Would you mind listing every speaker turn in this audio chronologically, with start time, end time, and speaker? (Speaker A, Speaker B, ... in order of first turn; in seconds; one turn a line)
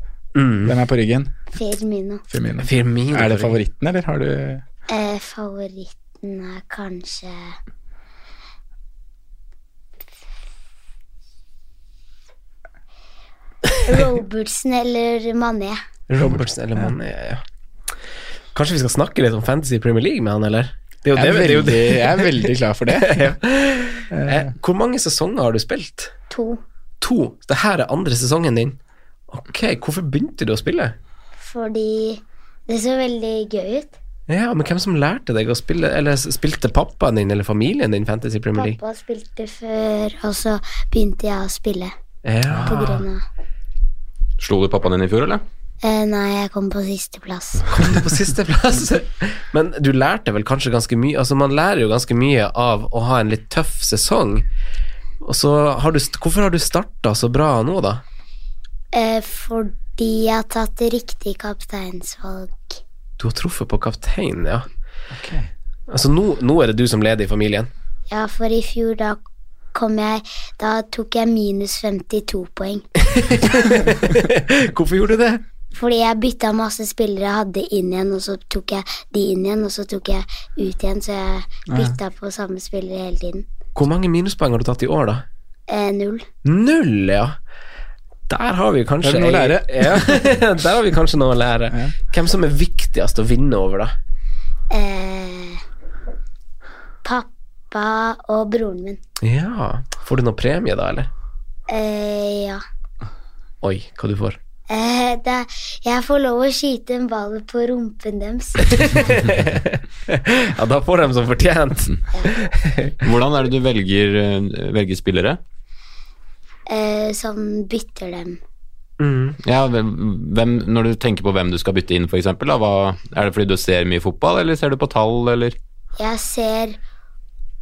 Speaker A: 0.4-0.8
Speaker B: 0.7-1.3
Speaker C: 1.5-2.2
Speaker B: 2.3-4.6
Speaker A: 2.6-3.6
Speaker C: 4.9-7.6
Speaker C: 13.9-15.8
Speaker A: 16.1-17.4
Speaker A: 18.5-26.1
Speaker B: 21.1-23.3
Speaker B: 24.1-24.5
Speaker C: 26.3-26.6
Speaker A: 27.0-28.8
Speaker A: 29.3-30.9
Speaker C: 31.4-34.0
Speaker A: 34.3-38.8
Speaker C: 38.5-41.9
Speaker A: 42.2-43.0
Speaker B: 42.6-43.0
Speaker C: 42.7-43.2
Speaker D: 44.4-45.4
Speaker C: 45.8-47.6
Speaker A: 47.7-54.5
Speaker A: 55.2-58.0
Speaker C: 58.9-62.8
Speaker A: 63.2-64.7
Speaker B: 65.1-65.5
Speaker A: 65.9-67.7
Speaker C: 68.1-69.2
Speaker C: 69.7-72.8
Speaker A: 73.2-75.4
Speaker C: 75.7-83.5
Speaker B: 81.7-82.0
Speaker A: 83.8-85.2
Speaker C: 85.7-86.3
Speaker A: 86.5-87.3
Speaker A: 88.3-93.9
Speaker B: 89.0-90.2
Speaker C: 94.7-95.6
Speaker C: 97.0-99.0
Speaker A: 99.2-101.1
Speaker C: 101.7-102.6
Speaker A: 103.6-104.4
Speaker C: 104.7-109.0
Speaker A: 108.6-112.9
Speaker D: 113.0-115.4
Speaker C: 116.7-118.4
Speaker A: 119.0-119.4
Speaker D: 119.5-125.6
Speaker C: 126.0-126.8